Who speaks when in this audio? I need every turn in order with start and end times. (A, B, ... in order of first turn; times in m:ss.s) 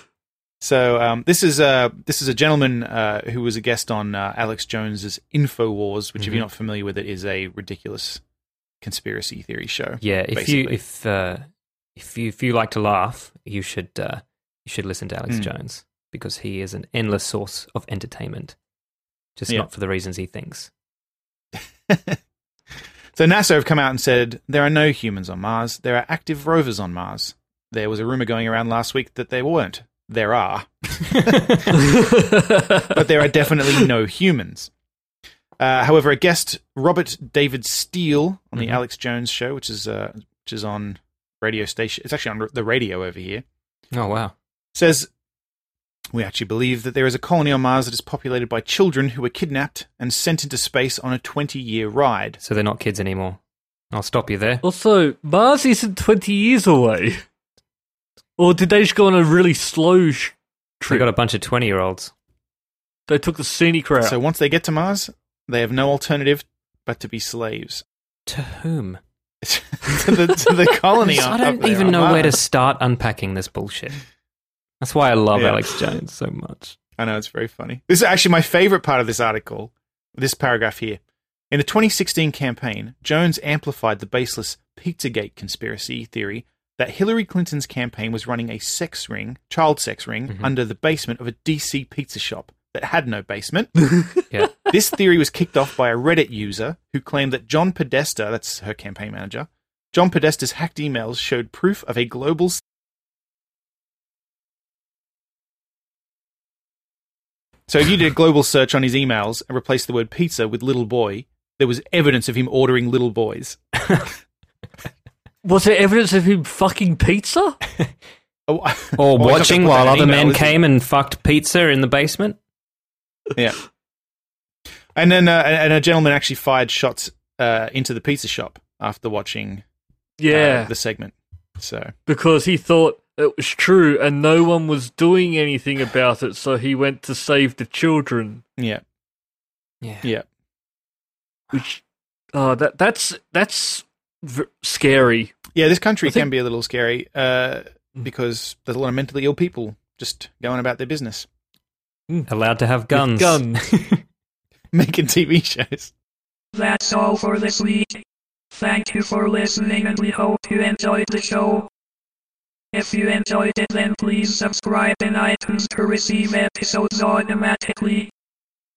0:00.6-0:08.2 A
0:06.2-0:06.5 B
0:08.8-0:10.8 A
0:10.0-0:18.5 B
0:19.4-0:20.7 B
0:21.9-0:22.2 A
0:23.1-0:31.7 A
0:31.2-0:31.6 B
0:31.7-0:33.8 C
0:32.9-0:34.7 A
0:35.6-0:43.4 A
0:38.5-0:38.8 B
0:43.9-0:44.3 B
0:44.7-0:45.1 A
0:46.1-0:52.4 A
0:52.4-0:53.4 B
0:53.9-0:54.6 B
0:54.6-0:57.2 C
0:58.4-1:01.1 C
1:00.9-1:02.1 B
1:03.1-1:04.2 C
1:04.0-1:07.8 A
1:08.3-1:09.0 B
1:09.4-1:12.4 A
1:11.0-1:14.0 B
1:14.8-1:16.8 B
1:15.3-1:15.8 A
1:17.0-1:21.0 A
1:21.5-1:33.7 A
1:33.9-1:34.2 C
1:34.7-1:42.6 A
1:47.7-1:53.6 A
1:55.4-1:57.6 C
1:58.5-2:00.6 A
1:59.0-2:02.4 B
2:05.0-2:09.6 A
2:10.2-2:10.7 C
2:10.3-2:11.9 A
2:12.1-2:18.4 C
2:19.8-2:20.1 B
2:21.5-2:21.8 C
2:22.3-2:25.4 C
2:25.5-2:31.2 A
2:32.3-2:34.0 B
2:32.9-2:33.6 C
2:34.7-2:35.9 A
2:36.5-2:41.7 D
2:42.7-2:48.1 D